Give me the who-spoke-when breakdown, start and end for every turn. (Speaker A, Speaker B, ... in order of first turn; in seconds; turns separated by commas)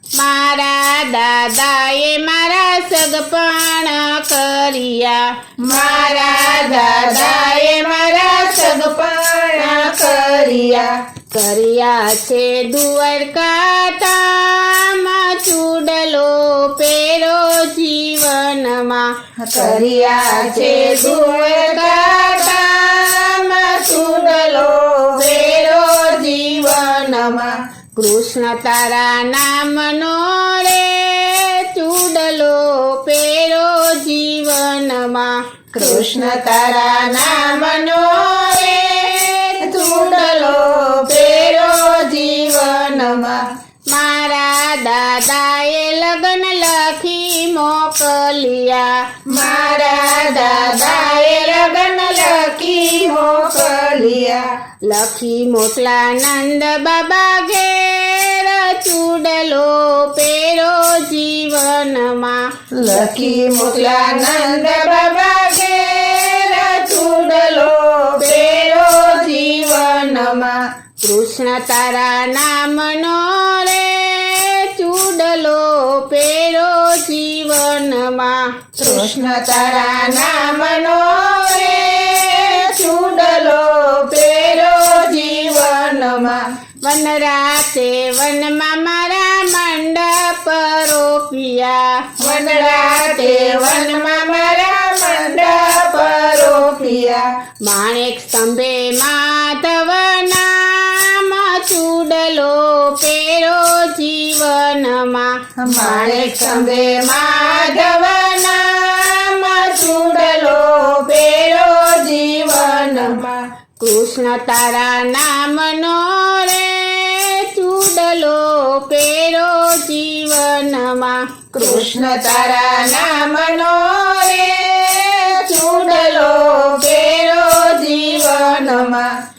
Speaker A: 0.1-5.4, Speaker B: 5.6-10.9, Speaker A: 11.3-19.2, Speaker B: 19.4-27.6, Speaker A: 20.4-22.5, Speaker A: 25.1-25.5, Speaker A: 27.9-35.4, Speaker B: 35.7-38.5, Speaker A: 38.0-40.3, Speaker B: 39.6-43.4, Speaker A: 43.9-49.2, Speaker B: 49.2-54.5, Speaker A: 54.8-62.6, Speaker B: 62.7-70.6, Speaker A: 71.0-78.8, Speaker B: 78.8-86.4, Speaker A: 86.8-92.3, Speaker B: 92.2-97.3, Speaker A: 97.6-106.8, Speaker B: 105.6-113.4, Speaker A: 113.8-121.4, Speaker B: 121.5-129.1